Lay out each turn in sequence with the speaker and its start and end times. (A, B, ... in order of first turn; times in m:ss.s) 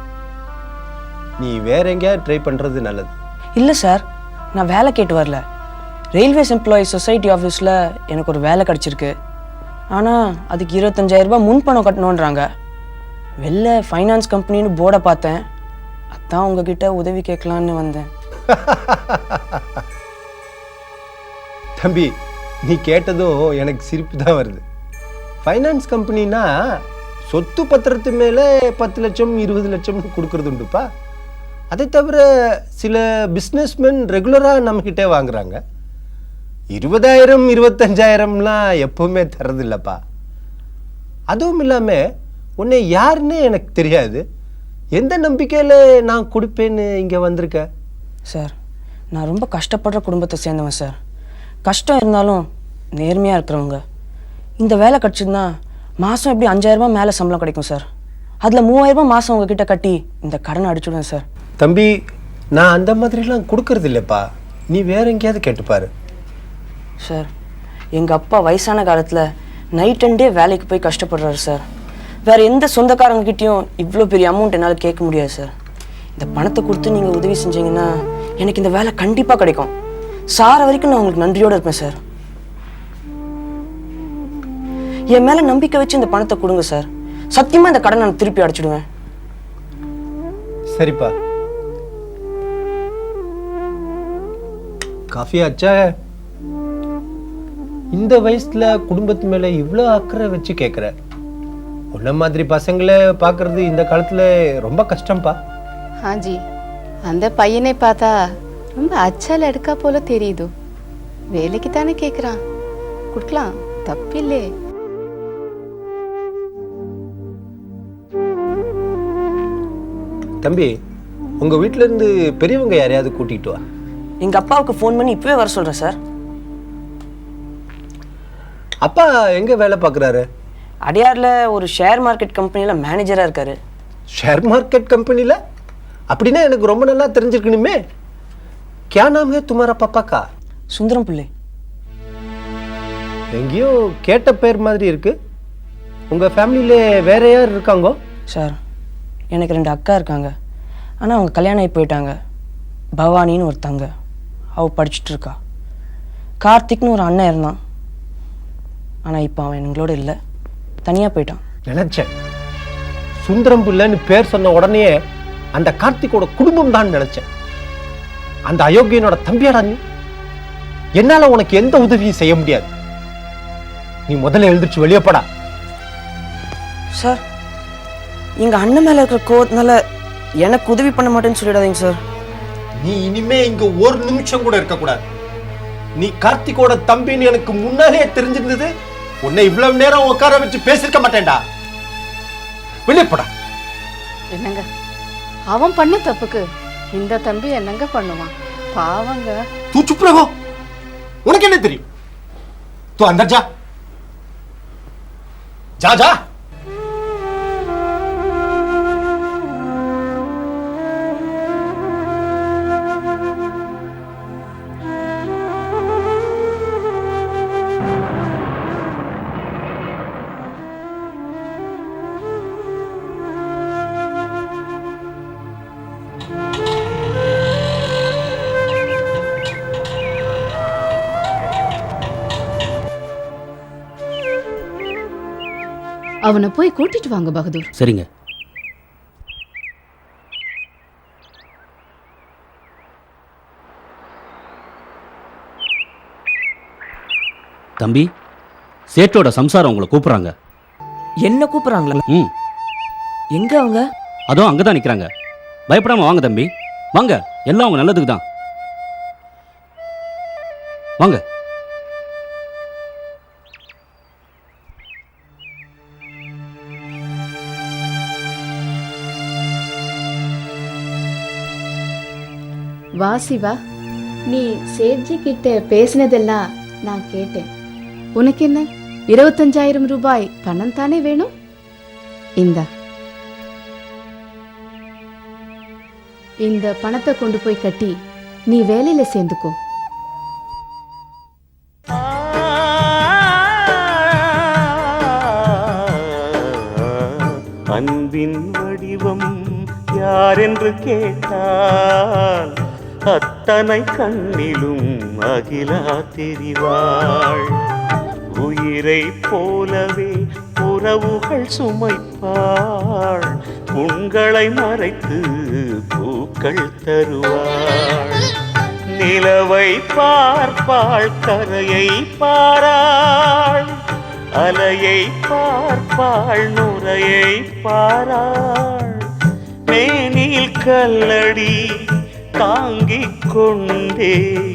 0:01.4-0:03.1 A
0:03.6-0:04.0 B
0:04.6-0:05.4 B
0:06.2-0:09.1 B
0:09.9-0:12.4 B
0:13.4-0:15.4 B
0:16.2-0:18.1 B
0:18.5-0:19.4 A
0:21.8-0:22.1 A
0:22.7-0:24.6 A
0:25.4-0:26.5 A
0:27.3-0:30.9 A
0:31.7-0:32.2 A
0:32.8-0:35.6 A
0:36.8-0:40.0 A
0:41.3-0:42.0 A
0:42.6-0:44.2 A
0:45.0-0:47.6 A
0:49.1-0:51.0 B
0:51.7-0:52.4 B
0:53.0-0:53.8 B
0:54.6-0:55.5 B
0:56.0-0:57.8 B
0:58.4-1:01.2 B
1:01.6-1:01.9 A
1:02.6-1:05.9 A
1:08.0-1:09.2 B
1:09.8-1:11.6 B
1:12.3-1:15.5 B
1:16.2-1:17.9 B
1:18.4-1:19.7 B
1:20.4-1:22.0 B
1:25.1-1:28.8 B
1:30.8-1:31.1 A
1:35.1-1:35.8 A
1:37.9-1:40.9 A
1:42.0-1:45.4 A
1:46.0-1:46.4 C
1:47.1-1:48.1 C
1:48.8-1:50.5 C
1:51.3-1:52.4 C
1:53.1-1:54.4 C
2:00.4-2:00.7 A
2:01.4-2:03.6 A
2:04.2-2:06.0 B
2:08.8-2:10.2 A
2:10.9-2:13.6 B
2:14.2-2:15.4 A
2:16.1-2:17.8 A
2:18.9-2:20.2 A
2:20.7-2:21.3 B
2:23.4-2:25.1 A
2:26.1-2:28.0 A
2:29.3-2:30.3 B
2:31.0-2:32.1 B
2:33.0-2:33.9 B
2:34.6-2:35.4 B
2:36.4-2:37.6 B
2:39.1-2:40.2 B
2:40.8-2:41.4 B
2:41.7-2:42.1 A
2:43.2-2:44.9 A
2:45.6-2:47.3 A
2:48.5-2:49.8 A
2:51.0-2:52.7 A
2:54.1-2:55.2 A
2:58.4-2:59.8 B
3:00.4-3:02.0 B
3:02.8-3:05.0 A
3:06.0-3:08.7 A
3:09.3-3:11.4 A
3:12.9-3:13.3 A
3:14.3-3:14.6 C
3:15.5-3:16.4 C
3:16.9-3:19.4 C
3:19.7-3:20.3 A
3:21.3-3:21.8 A
3:23.0-3:23.4 A
3:25.8-3:26.1 A
3:56.3-3:57.7 C
4:08.9-4:10.3 D
4:11.3-4:12.0 B
4:13.4-4:13.8 B
4:14.3-4:15.1 D
4:15.7-4:16.5 D
4:17.0-4:18.2 D
4:33.0-4:33.5 C
4:34.3-4:37.5 C
4:38.2-4:41.3 C
4:42.4-4:42.6 C
4:46.5-4:47.9 C
4:48.5-4:49.6 C
4:52.1-4:53.6 E
4:57.7-4:59.2 E
5:00.0-5:01.9 E
5:03.1-5:07.5 E
5:08.4-5:12.6 E
5:13.8-5:15.2 E
5:16.0-5:18.2 E
5:19.0-5:22.8 E
5:24.4-5:28.9 E
5:29.7-5:31.5 E
5:32.4-5:34.1 E